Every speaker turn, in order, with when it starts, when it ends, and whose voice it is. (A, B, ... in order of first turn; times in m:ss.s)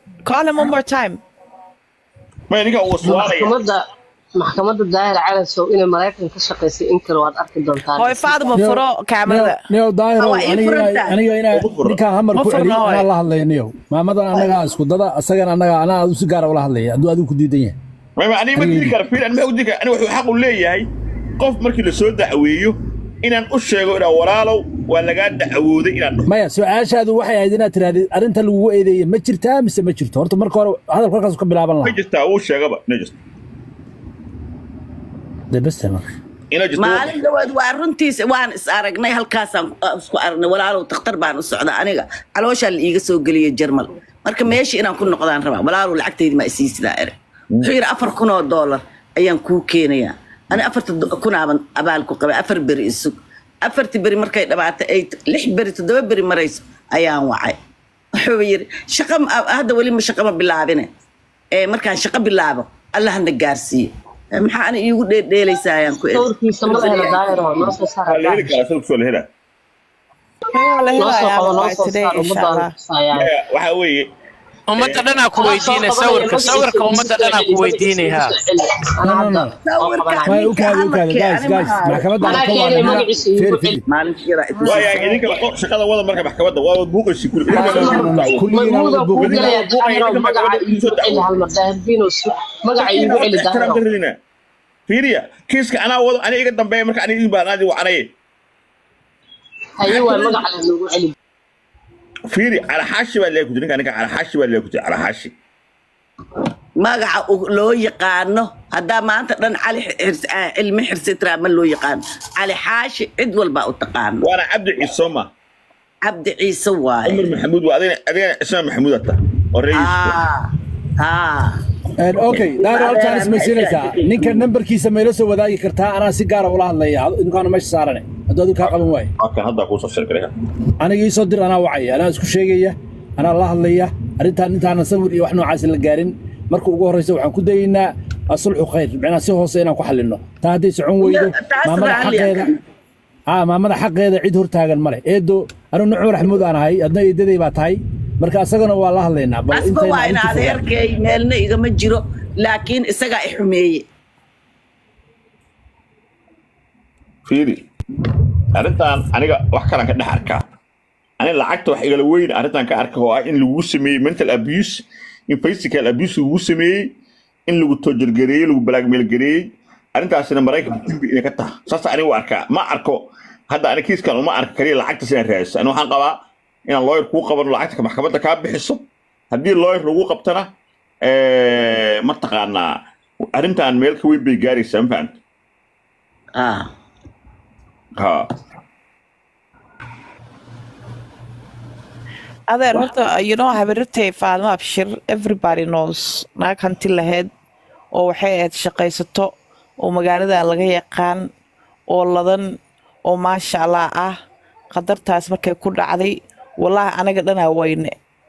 0:00.2-0:01.2 A
0:02.5-0:03.6 B
0:03.0-0:08.5 C
0:08.0-0:09.6 A
0:08.5-0:17.8 D
0:10.2-0:11.2 E
0:11.5-0:12.0 B
0:12.4-0:13.1 A
0:18.2-0:20.9 B
0:18.6-0:19.0 D
0:21.4-0:26.3 B
0:26.3-0:32.0 D
0:31.8-0:33.2 B
0:35.5-0:36.1 D
0:36.5-0:37.2 B
0:36.8-0:57.6 E
0:58.2-1:00.9 E
1:01.6-1:07.2 E
1:06.1-1:08.6 C
1:08.1-1:09.3 B
1:10.5-1:12.7 A
1:11.0-1:13.3 C
1:13.1-1:14.1 B
1:14.7-1:18.4 F
1:14.8-1:15.0 B
1:15.4-1:20.4 C
1:19.0-1:19.5 D
1:19.6-1:22.5 E
1:20.3-1:23.8 D
1:22.2-1:23.8 C
1:23.9-1:25.2 E
1:24.6-1:28.4 B
1:27.5-1:33.8 C
1:27.5-1:29.6 D
1:29.1-1:31.3 B
1:32.8-1:34.2 B
1:34.9-1:38.1 B
1:39.8-1:41.1 C
1:39.9-1:40.3 B
1:42.3-1:45.3 B
1:46.8-1:54.3 E
1:54.2-1:55.3 B
1:56.0-1:57.2 E
1:57.0-2:00.2 B
1:59.7-2:01.6 E
2:02.0-2:09.1 D
2:02.6-2:04.4 E
2:09.2-2:10.3 B
2:10.8-2:22.5 D
2:21.0-2:22.6 E
2:23.3-2:30.6 D
2:29.5-2:33.9 E
2:37.3-2:37.6 B
2:38.6-2:40.4 B
2:41.2-2:46.9 B
2:47.5-3:00.5 B
3:01.0-3:02.8 B
3:03.3-3:05.2 B
3:06.4-3:06.7 E
3:08.0-3:08.3 B
3:12.5-3:17.3 A
3:17.9-3:21.3 A
3:21.9-3:24.2 A
3:24.7-3:27.9 A